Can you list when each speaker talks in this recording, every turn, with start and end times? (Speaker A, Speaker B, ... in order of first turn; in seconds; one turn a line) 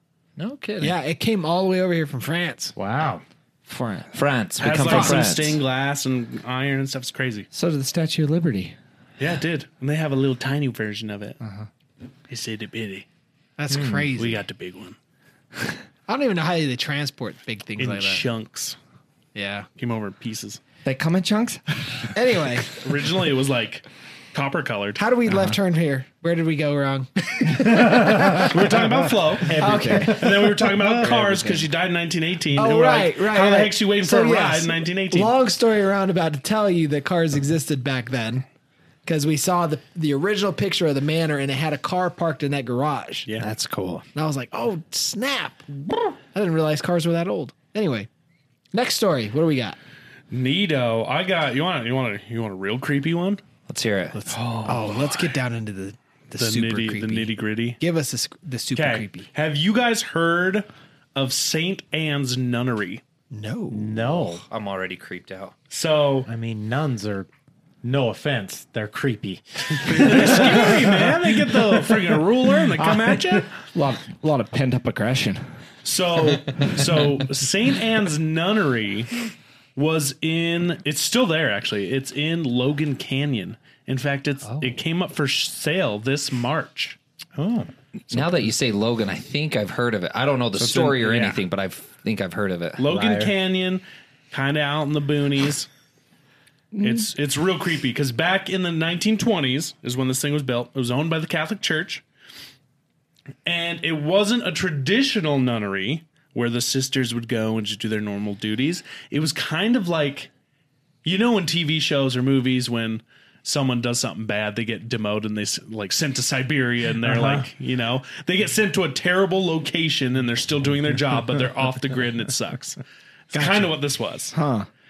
Speaker A: 0.4-1.0
Speaker B: 0.8-2.8
Speaker C: 2.8-3.2
Speaker B: 3.7-4.0
Speaker A: 4.1-5.6
Speaker D: 4.6-7.5
Speaker B: 4.8-5.3
Speaker E: 7.5-8.8
Speaker D: 9.2-11.4
Speaker E: 11.4-11.7
Speaker D: 12.3-13.1
Speaker B: 13.6-14.4
Speaker A: 13.7-14.1
Speaker D: 14.1-15.0
Speaker B: 16.1-18.3
Speaker D: 17.8-18.8
Speaker B: 19.4-19.7
Speaker D: 19.8-20.6
Speaker E: 20.9-22.2
Speaker B: 22.1-22.7
Speaker D: 22.8-25.0
Speaker B: 25.0-28.8
Speaker E: 25.3-25.6
Speaker C: 27.6-28.6
Speaker D: 28.4-35.4
Speaker B: 29.5-30.6
Speaker E: 29.6-30.3
Speaker C: 29.8-30.9
Speaker E: 30.8-31.7
Speaker B: 32.5-38.5
Speaker B: 39.1-43.3
Speaker A: 43.4-44.0
Speaker B: 44.1-48.1
Speaker B: 48.7-49.8
Speaker D: 50.3-53.4
Speaker A: 53.7-54.3
Speaker B: 54.1-59.3
Speaker D: 54.3-55.2
Speaker D: 56.4-57.8
Speaker D: 58.8-63.0
Speaker B: 63.3-64.1
Speaker C: 63.7-64.4
Speaker A: 64.3-65.5
Speaker D: 65.7-66.3
Speaker C: 66.3-67.3
Speaker C: 67.8-72.2
Speaker D: 69.8-73.5
Speaker C: 72.7-73.5
Speaker E: 73.7-75.5
Speaker D: 75.8-79.2
Speaker D: 79.8-87.0
Speaker A: 84.4-84.8
Speaker C: 87.4-87.7
Speaker A: 88.1-92.8
Speaker D: 90.6-91.4
Speaker D: 92.8-95.7
Speaker C: 92.9-93.3
Speaker E: 96.7-97.1
Speaker D: 96.8-102.0
Speaker D: 103.5-110.3
Speaker D: 111.0-122.8
Speaker C: 117.0-117.5
Speaker D: 123.3-124.4
Speaker B: 123.4-123.7
Speaker E: 124.3-124.7